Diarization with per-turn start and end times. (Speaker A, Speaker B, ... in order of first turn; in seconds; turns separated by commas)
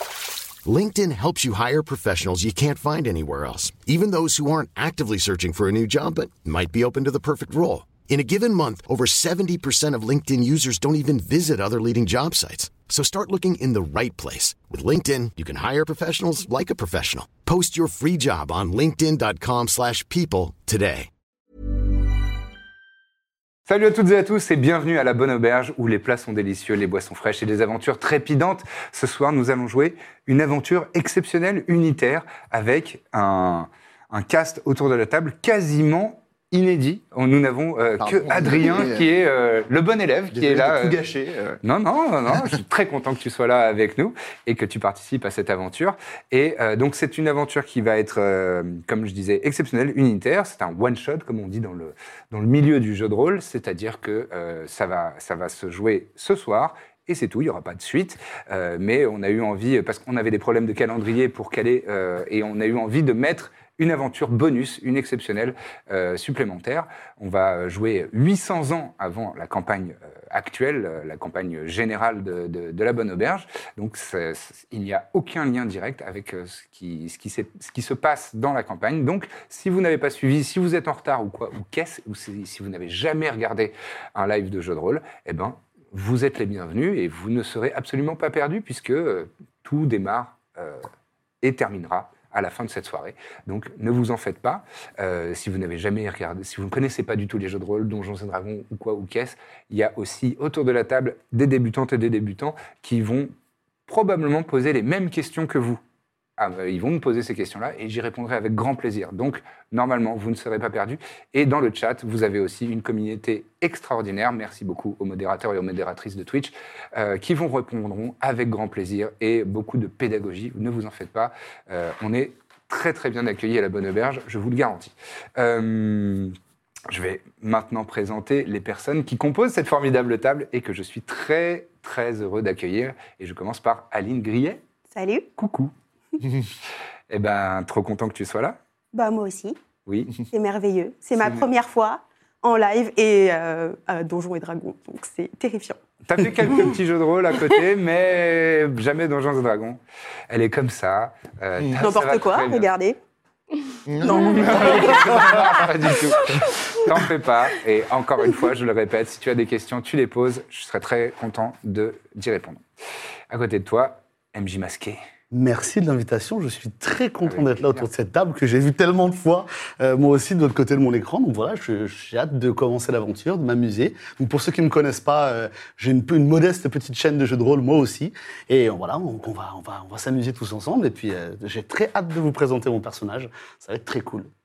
Speaker A: 0.6-21.1, Speaker B: 23.7-41.0, Speaker C: 38.0-39.1, Speaker C: 40.3-41.6, Speaker B: 41.6-90.9, Speaker B: 91.4-103.3, Speaker B: 103.9-105.8, Speaker B: 106.4-126.4, Speaker B: 126.9-134.6, Speaker D: 134.9-135.3, Speaker B: 135.4-135.7, Speaker B: 137.1-138.6, Speaker D: 138.9-139.6, Speaker B: 139.8-140.2, Speaker D: 140.3-145.8, Speaker B: 141.2-141.5, Speaker B: 146.0-152.7, Speaker D: 151.7-152.9, Speaker C: 153.8-155.2, Speaker B: 154.0-162.6, Speaker D: 154.2-155.4, Speaker B: 163.3-165.0, Speaker E: 165.3-184.3, Speaker B: 167.2-167.9